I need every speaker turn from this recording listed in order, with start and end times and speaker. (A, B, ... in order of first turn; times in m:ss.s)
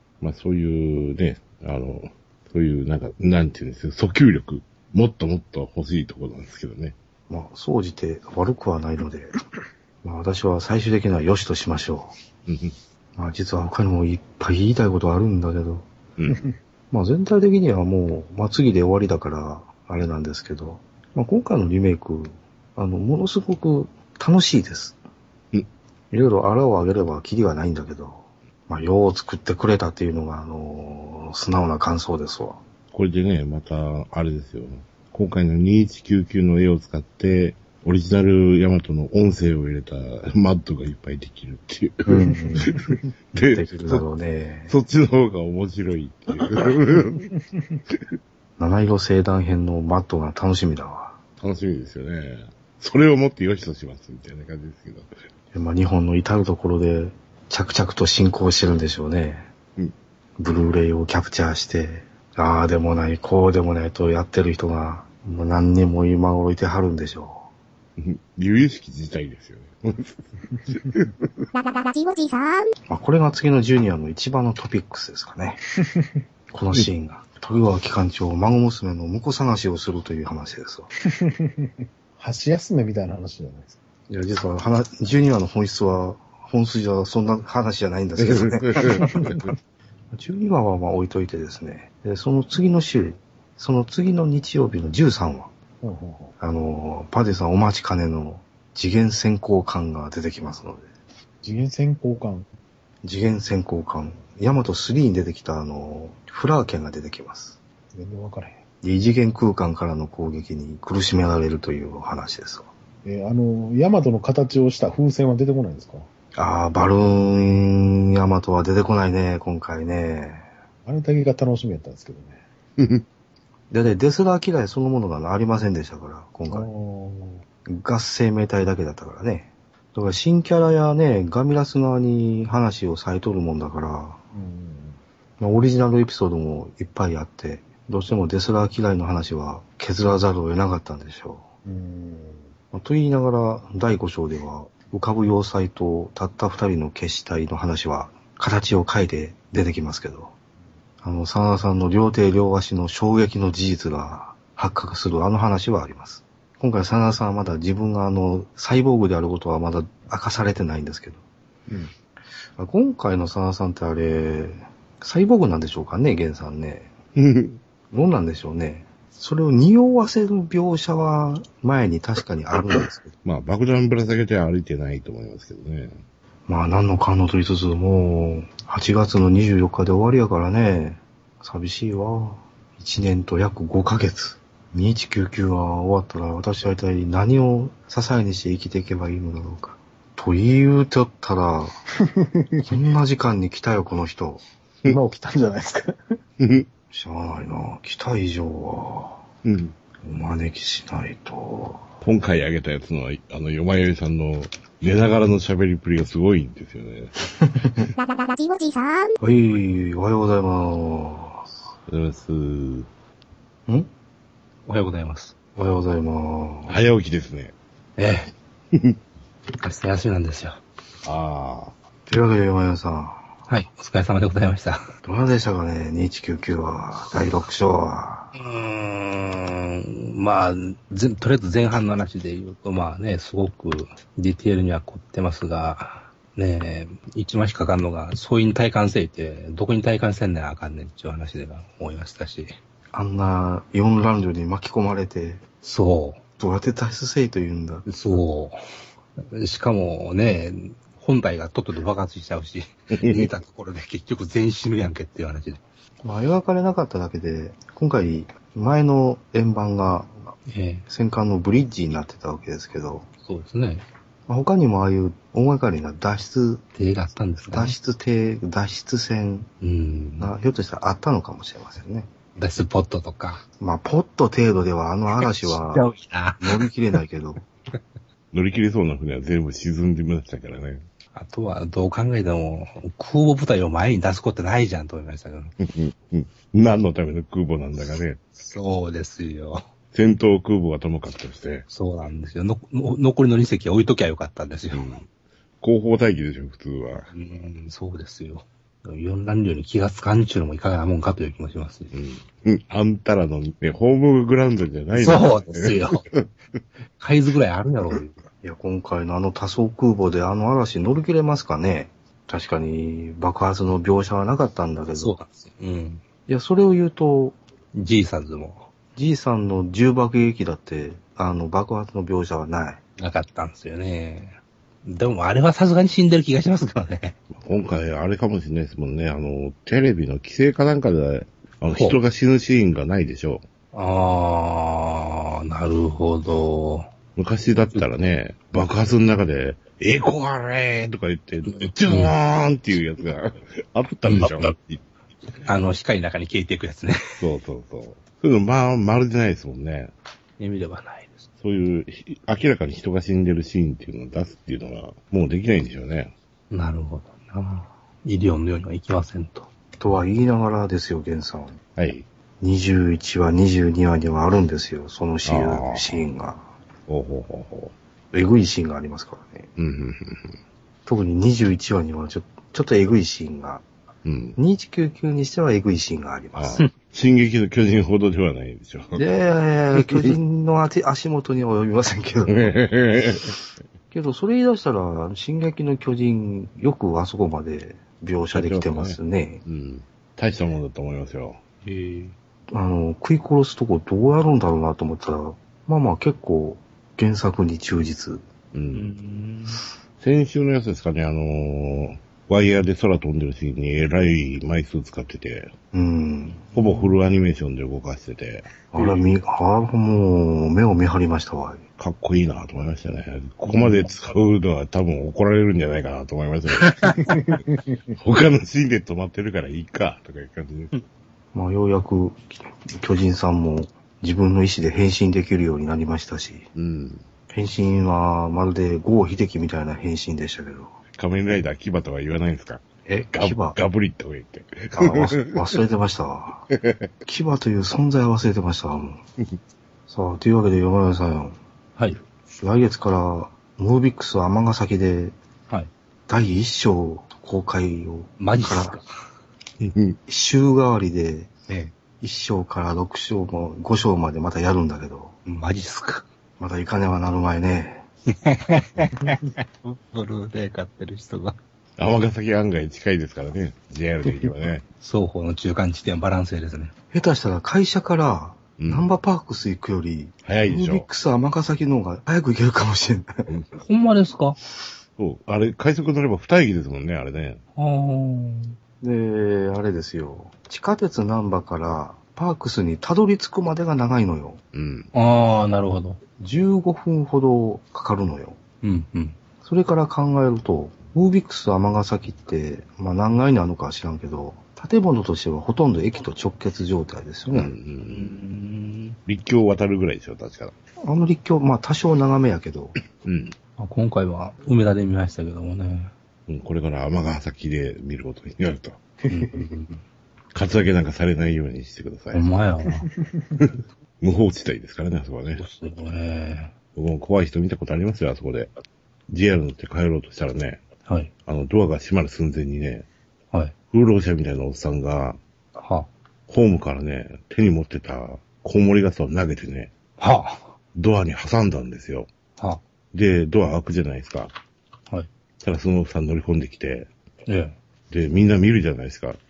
0:00.2-0:06.9 A
0:07.3-0:09.3 B
0:10.0-0:12.1 B
0:12.5-0:12.7 A
0:13.2-0:15.9 B
0:16.2-0:16.4 A
0:16.9-0:25.0 B
0:26.1-0:32.6 B
0:32.9-0:44.0 A
0:42.1-0:42.7 B
0:43.3-0:44.7 B
0:44.7-0:47.3 A
0:48.6-0:51.2 B
0:51.4-0:55.1 A
0:55.5-0:59.5 B
1:00.4-1:07.4 B
1:08.0-1:11.5 A
1:11.5-1:12.7 C
1:12.9-1:15.6 B
1:16.5-1:20.9 B
1:21.1-1:23.8 D
1:24.1-1:29.4 B
1:28.2-1:29.5 A
1:30.1-1:35.5 B
1:35.8-1:36.3 D
1:36.4-1:40.9 B
1:41.4-1:42.4 D
1:43.0-1:47.6 B
1:47.9-1:48.6 D
1:48.8-1:52.7 B
1:53.0-1:56.1 D
1:56.3-2:00.4 B
2:00.8-2:02.4 D
2:02.8-2:03.0 A
2:03.7-2:06.7 B
2:06.5-2:07.4 D
2:07.7-2:14.2 B
2:14.3-2:15.0 D
2:15.4-2:21.4 B
2:21.6-2:22.4 D
2:22.7-2:30.3 B
2:31.0-2:41.2 B
2:41.7-2:41.9 D
2:42.6-2:46.9 B
2:47.2-2:47.6 A
2:47.9-2:53.1 B
2:53.2-2:56.0 A
2:56.5-3:11.8 B
3:12.1-3:12.7 D
3:12.6-3:14.4 B
3:14.8-3:16.0 D
3:16.4-3:16.7 A
3:16.9-3:19.2 B
3:19.4-3:19.7 A
3:20.0-3:21.9 B
3:22.0-3:27.2 A
3:27.4-3:27.9 B
3:28.0-3:29.2 C
3:29.2-3:31.5 B
3:31.9-3:32.9 A
3:34.6-3:35.4 E
3:35.5-3:36.8 B
3:36.7-3:37.5 A
3:38.0-3:38.3 E
3:39.6-3:40.6 E
3:41.0-3:41.7 A
3:42.1-3:43.3 B
3:43.5-3:44.9 E
3:45.0-3:48.3 B
3:48.3-4:02.6 E
4:02.9-4:05.4 B
4:05.6-4:06.2 E
4:06.4-4:07.9 B
4:07.9-4:08.6 E
4:09.2-4:15.6 E
4:12.9-4:13.3 A
4:16.0-4:20.3 B
4:20.5-4:20.9 E
4:20.9-4:23.1 B
4:23.2-4:23.8 E
4:24.3-4:26.6 B
4:26.7-4:27.8 E
4:27.4-4:29.5 B
4:29.6-4:30.3 E
4:30.2-4:32.1 B
4:32.4-4:33.4 E
4:33.6-4:35.9 B
4:35.2-4:36.7 E
4:36.4-4:37.4 B
4:38.3-4:40.8 A
4:41.1-4:45.5 E
4:45.6-4:48.2 A
4:48.3-4:49.6 E
4:49.9-4:51.6 A
4:51.7-4:54.9 E
4:54.7-4:55.1 A
4:55.6-4:57.1 A
4:57.1-5:01.9 E
5:01.9-5:06.2 A
5:04.9-5:06.0 E
5:07.0-5:08.1 E
5:08.4-5:15.2 B
5:15.0-5:16.0 E
5:16.3-5:17.4 B
5:17.7-5:18.7 E
5:18.9-5:22.8 B
5:23.0-5:27.2 E
5:27.3-5:33.4 A
5:33.7-5:36.9 E
5:37.2-5:44.8 A
5:41.4-5:42.1 E
5:44.1-5:44.5 E
5:45.4-5:47.2 E
5:47.2-5:49.9 A
5:50.4-5:51.3 E
5:51.4-5:56.1 A
5:56.5-5:59.5 E
5:59.8-6:01.6 B
6:01.8-6:02.0 A
6:02.4-6:06.4 B
6:05.2-6:06.1 A
6:06.9-6:07.7 A
6:08.1-6:09.5 B
6:09.6-6:10.4 A
6:10.8-6:13.6 B
6:14.0-6:14.4 A
6:14.4-6:16.6 B
6:16.4-6:19.0 A
6:19.0-6:22.6 B
6:22.3-6:23.3 A
6:23.9-6:29.4 B
6:28.3-6:31.4 A
6:31.6-6:32.1 E
6:32.5-6:38.2 B
6:38.5-6:38.9 A
6:38.7-6:39.6 E
6:40.0-6:45.5 A
6:45.7-6:46.4 B
6:46.5-6:46.9 E
6:46.5-6:48.8 A
6:48.7-6:51.6 B
6:51.8-6:57.1 A
6:56.6-6:57.4 E
6:57.9-7:00.7 A
7:01.3-7:06.5 B
7:06.6-7:07.0 A
7:07.3-7:10.8 B
7:11.0-7:15.3 A
7:12.8-7:13.6 B
7:14.7-7:16.5 B
7:16.5-7:16.8 A
7:17.0-7:19.0 B
7:19.9-7:21.4 B
7:22.4-7:25.1 B
7:26.1-7:28.8 B
7:28.2-7:28.9 E
7:29.6-7:30.0 A
7:30.1-7:31.3 B
7:31.5-7:31.8 E
7:31.9-7:35.1 B
7:35.2-7:36.0 E
7:36.4-7:37.8 B
7:38.1-7:41.4 E
7:41.8-7:44.6 A
7:44.8-7:46.7 E
7:46.9-7:53.3 B
7:48.6-7:48.9 A
7:50.2-7:50.9 A
7:53.6-7:54.4 E
7:55.0-7:57.4 A
7:57.6-7:58.6 E
7:58.8-8:04.4 B
8:04.5-8:04.9 A
8:04.9-8:06.0 E
8:06.2-8:08.4 B
8:08.6-8:09.2 E
8:09.4-8:17.5 B
8:17.3-8:18.2 A
8:17.8-8:19.0 E
8:19.0-8:20.5 A
8:20.8-8:22.8 B
8:23.0-8:23.3 A
8:23.6-8:25.9 E
8:26.3-8:28.8 A
8:29.1-8:29.8 E
8:30.3-8:32.3 A
8:32.1-8:32.9 E
8:34.0-8:35.4 A
8:35.4-8:36.5 E
8:36.7-8:38.5 A
8:39.1-8:40.6 A
8:40.8-8:41.1 E
8:41.2-8:42.9 A
8:43.7-8:45.2 A
8:45.6-8:45.9 E
8:46.3-8:49.7 A
8:50.0-8:50.5 E
8:50.7-8:52.1 A
8:52.9-8:54.3 A
8:55.4-8:56.9 A
8:57.2-8:57.5 E
8:57.9-8:59.2 A